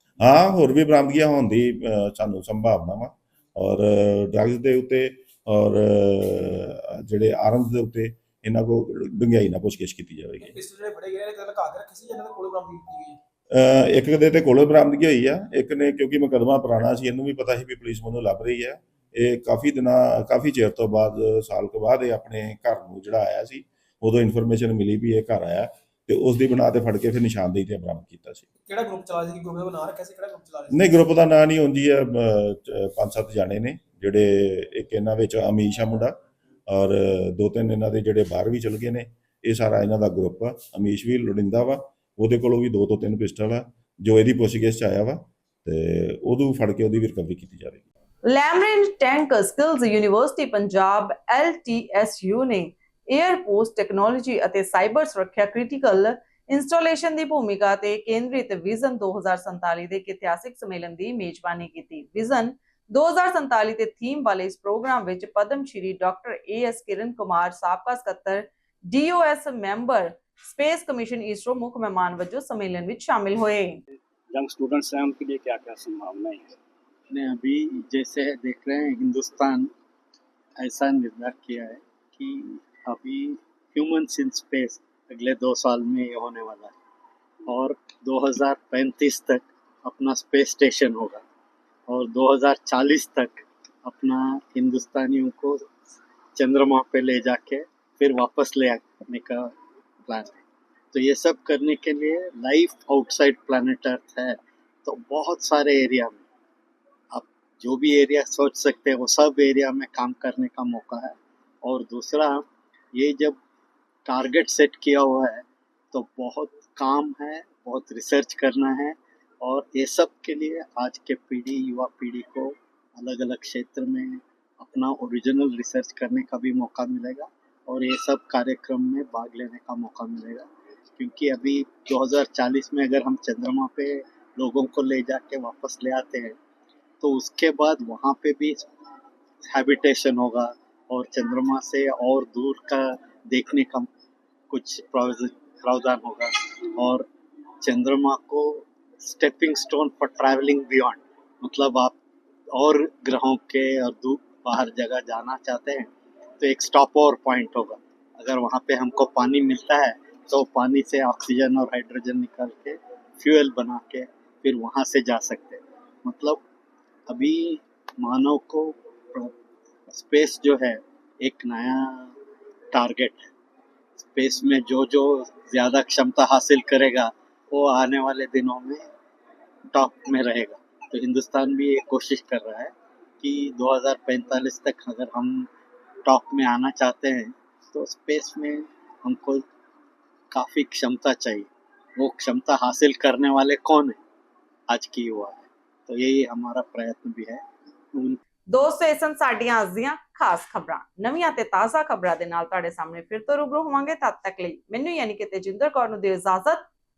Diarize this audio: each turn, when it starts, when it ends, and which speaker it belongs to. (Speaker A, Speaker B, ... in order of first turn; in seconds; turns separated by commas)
Speaker A: 0.2-10.6, Speaker B: 10.4-13.2, Speaker A: 13.5-28.5, Speaker B: 28.6-30.8, Speaker A: 30.7-47.9, Speaker C: 48.3-73.8, Speaker D: 74.3-76.6, Speaker E: 77.1-79.7, Speaker E: 80.6-86.8, Speaker E: 87.5-91.2, Speaker E: 91.9-95.7, Speaker E: 96.4-99.5, Speaker E: 100.1-106.2, Speaker E: 107.1-112.4, Speaker E: 112.9-113.4, Speaker E: 114.1-130.5, Speaker E: 131.0-136.4, Speaker E: 137.0-138.7, Speaker E: 139.5-143.9, Speaker E: 144.5-147.1, Speaker E: 147.6-151.9, Speaker E: 152.5-155.9, Speaker E: 156.4-166.4, Speaker E: 167.1-169.3, Speaker E: 169.9-172.1, Speaker E: 172.7-173.3, Speaker E: 174.0-178.8, Speaker E: 179.7-185.5, Speaker E: 186.1-189.4, Speaker E: 190.3-191.5, Speaker E: 192.0-194.0, Speaker E: 194.7-197.4, Speaker C: 198.5-206.7